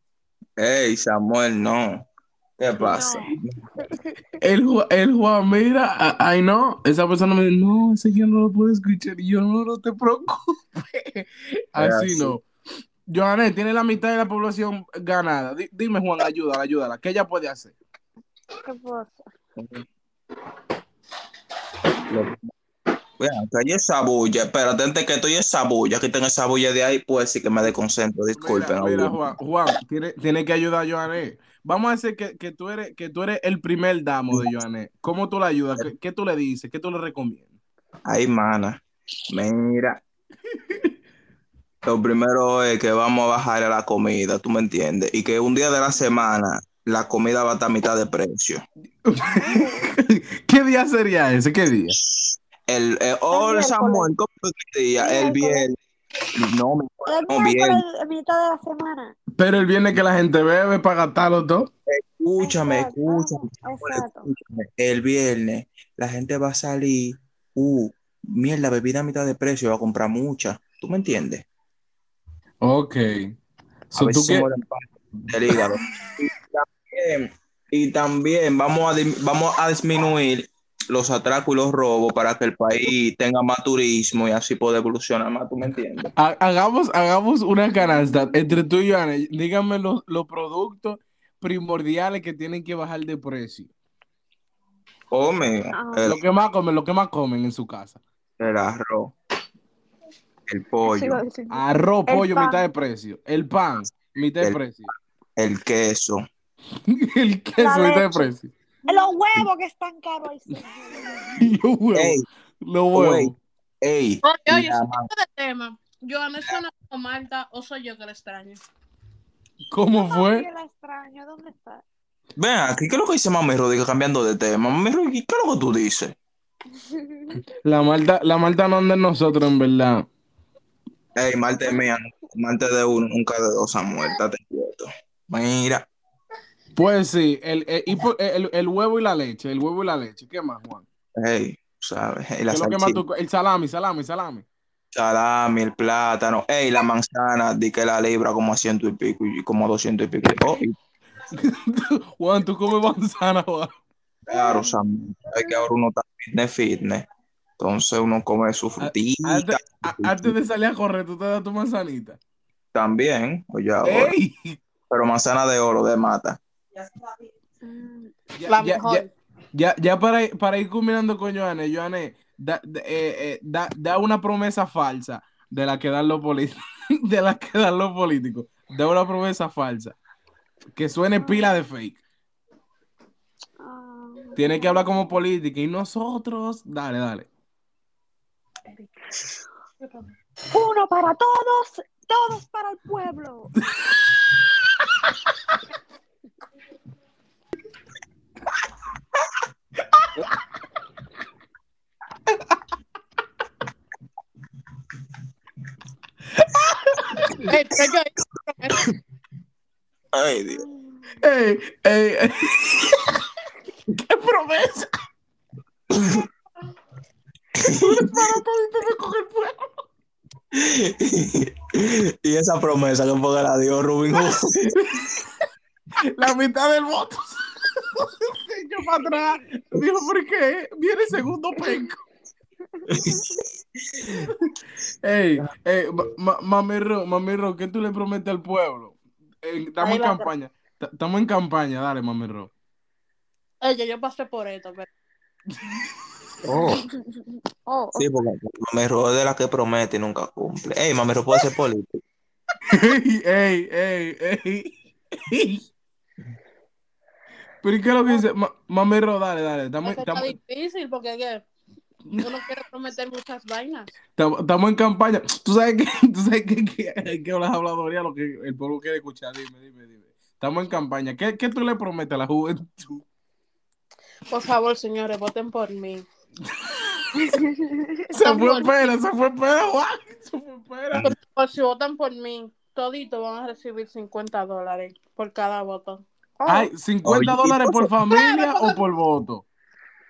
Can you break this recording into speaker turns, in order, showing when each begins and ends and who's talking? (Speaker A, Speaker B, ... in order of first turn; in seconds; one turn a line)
Speaker A: 0.6-2.1
Speaker A: 2.6-3.9
Speaker B: 2.8-4.2
Speaker C: 4.4-12.4
Speaker A: 11.8-12.4
Speaker C: 13.1-17.8
Speaker B: 18.6-19.2
Speaker A: 19.6-19.8
Speaker A: 22.1-22.4
Speaker A: 23.2-29.3
Speaker C: 28.4-37.5
Speaker A: 38.1-40.0
Speaker C: 40.6-40.9
Speaker A: 41.8-48.6
Speaker C: 49.0-51.9
Speaker B: 49.4-49.9
Speaker A: 51.9-55.7
Speaker B: 53.3-54.1
Speaker B: 55.0-55.6
Speaker A: 56.3-57.8
Speaker B: 57.1-59.1
Speaker C: 59.4-61.7
Speaker A: 61.9-71.4
Speaker B: 62.4-64.3
Speaker C: 72.6-73.3
Speaker C: 73.9-74.5
Speaker A: 74.0-86.1
Speaker C: 86.2-93.7
Speaker A: 95.1-96.2
Speaker B: 95.7-96.2
Speaker C: 96.0-98.0
Speaker A: 98.4-99.1
Speaker A: 100.5-101.2
Speaker B: 100.8-102.6
Speaker C: 101.5-104.9
Speaker A: 105.4-106.2
Speaker C: 106.9-108.5
Speaker B: 107.6-108.3
Speaker B: 108.9-111.5
Speaker C: 111.4-113.4
Speaker A: 111.9-112.2
Speaker A: 112.9-115.1
Speaker D: 114.2-118.6
Speaker C: 119.7-120.5
Speaker B: 119.9-121.8
Speaker A: 122.4-126.2
Speaker B: 126.8-127.4
Speaker C: 127.6-130.1
Speaker A: 131.2-135.9
Speaker C: 136.7-140.8
Speaker A: 141.2-143.0
Speaker C: 142.5-144.4
Speaker A: 144.9-150.8
Speaker C: 151.3-153.7
Speaker A: 154.3-157.1
Speaker B: 154.3-154.7
Speaker A: 157.6-160.3
Speaker C: 158.8-162.2
Speaker A: 162.7-164.1
Speaker C: 163.8-164.6
Speaker A: 164.9-166.4
Speaker B: 167.6-168.1
Speaker C: 168.3-179.9
Speaker D: 168.5-169.1
Speaker C: 180.8-182.0
Speaker B: 181.2-181.5
Speaker B: 183.6-185.1
Speaker C: 184.3-187.3
Speaker D: 189.8-190.1
Speaker B: 190.5-193.5
Speaker C: 193.8-194.2
Speaker C: 200.0-200.2
Speaker C: 202.3-202.5
Speaker C: 206.3-207.4
Speaker D: 207.5-208.8
Speaker A: 210.1-210.6
Speaker B: 210.5-211.2
Speaker C: 211.2-213.2
Speaker C: 213.9-214.9
Speaker A: 215.9-216.2
Speaker A: 217.6-218.2
Speaker C: 217.7-219.7
Speaker A: 220.5-224.8
Speaker C: 226.1-232.0
Speaker B: 231.6-231.8
Speaker B: 232.8-233.4
Speaker A: 232.9-234.3
Speaker C: 234.1-242.5
Speaker D: 239.8-240.3
Speaker D: 243.6-244.9
Speaker C: 245.5-245.8
Speaker A: 246.4-246.8
Speaker B: 246.6-248.1
Speaker A: 247.9-252.0
Speaker C: 252.7-255.6
Speaker C: 257.6-260.3
Speaker D: 259.8-261.4
Speaker D: 262.2-263.9
Speaker C: 264.2-273.0
Speaker D: 274.3-276.0
Speaker C: 276.6-277.2
Speaker B: 277.1-278.0
Speaker C: 278.1-281.1
Speaker D: 278.2-278.7
Speaker D: 281.0-286.0
Speaker B: 286.4-286.7
Speaker C: 286.5-289.4
Speaker A: 287.0-287.9
Speaker D: 288.1-288.8